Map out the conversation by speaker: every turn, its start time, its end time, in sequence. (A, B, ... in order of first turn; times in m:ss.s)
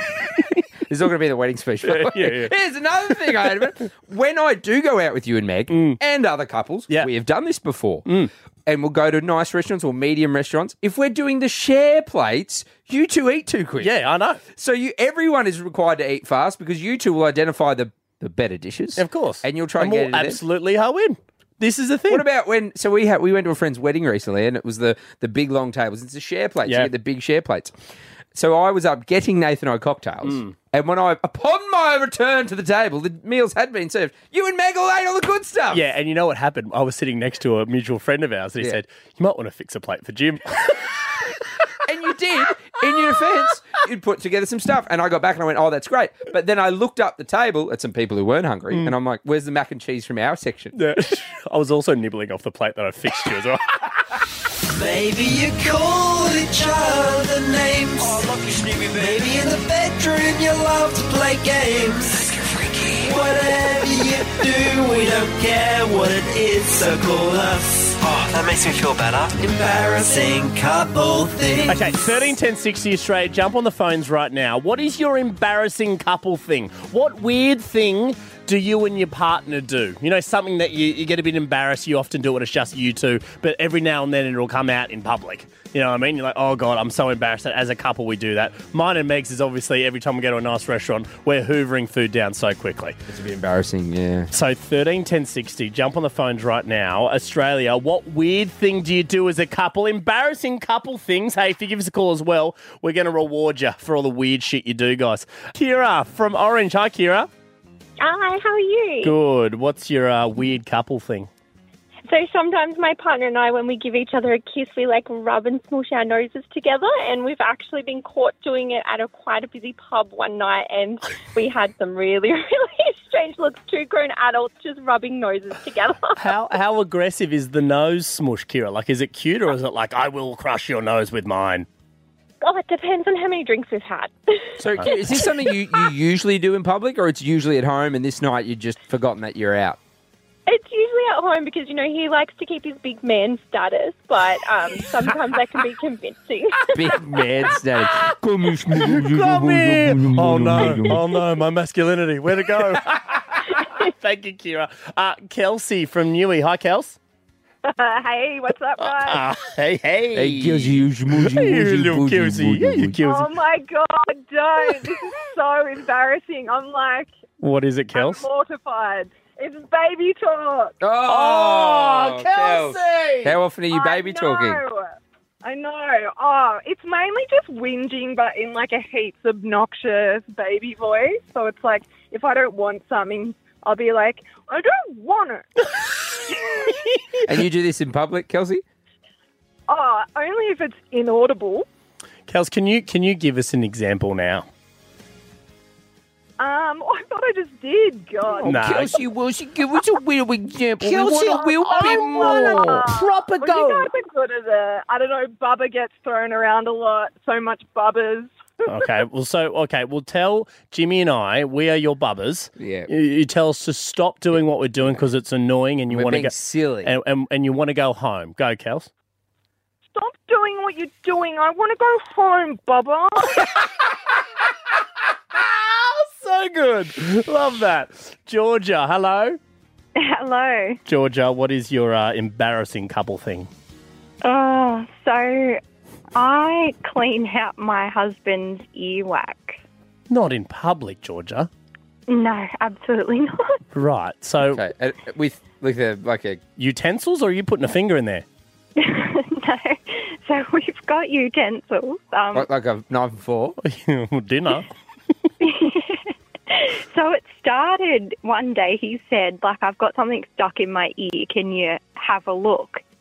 0:00.9-0:08.1 A
0:01.8-0:02.5 B
0:03.2-0:03.5 B
0:05.7-0:06.0 B
0:08.1-0:08.3 B
0:08.7-0:13.9 A
0:13.8-0:14.4 B
0:14.5-0:20.4 A
0:19.0-0:22.2 B
0:22.1-0:27.7 A
0:26.7-0:26.9 B
0:28.3-0:35.8 A
0:30.2-0:30.6 B
0:35.7-0:41.0 B
0:41.9-0:50.8 A
0:50.8-0:54.0 B
0:54.7-1:11.9 C
1:11.7-1:33.0 B
1:33.1-1:34.3 A
1:34.3-1:47.3 B
1:48.0-1:49.2 D
1:49.0-1:51.3 B
1:52.1-2:06.2 D
2:06.2-2:11.7 B
2:12.4-2:14.5 D
2:14.6-2:19.8 A
2:14.8-2:15.0 B
2:15.2-2:15.6 D
2:20.5-2:26.8 D
2:26.7-2:31.0 A
2:28.8-2:37.0 B
2:37.6-2:39.2 E
2:38.8-2:43.3 B
2:40.1-2:43.0 A
2:43.0-2:47.1 E
2:47.4-2:48.3 B
2:47.9-2:50.7 E
2:50.8-2:54.6 A
2:51.1-2:53.4 B
2:53.7-2:54.9 E
2:55.4-3:05.5 E
3:06.3-3:06.6 E
3:06.6-3:07.2 B
3:07.2-3:08.6 A
3:09.7-3:11.7 E
3:12.3-3:14.5 B
3:16.4-3:19.0 E
3:18.4-3:22.9 A
3:18.4-3:19.0 B
3:20.8-3:23.9 B
3:21.3-3:28.3 E
3:28.6-3:36.3 B
3:32.6-3:32.9 A
3:35.9-3:36.9 A
3:36.8-3:38.9 B
3:39.9-3:43.6 E
3:45.4-3:49.4 B
3:50.0-3:50.8 F
3:50.9-3:53.5 B
3:54.2-3:55.6 F
3:56.2-3:59.6 F
4:00.1-4:01.5 B
4:02.1-4:03.4 F
4:03.7-4:04.6 B
4:04.4-4:06.4 A
4:06.6-4:08.2 B
4:08.8-4:12.5 F
4:12.3-4:13.6 A
4:13.6-4:14.7 B
4:15.4-4:22.8 F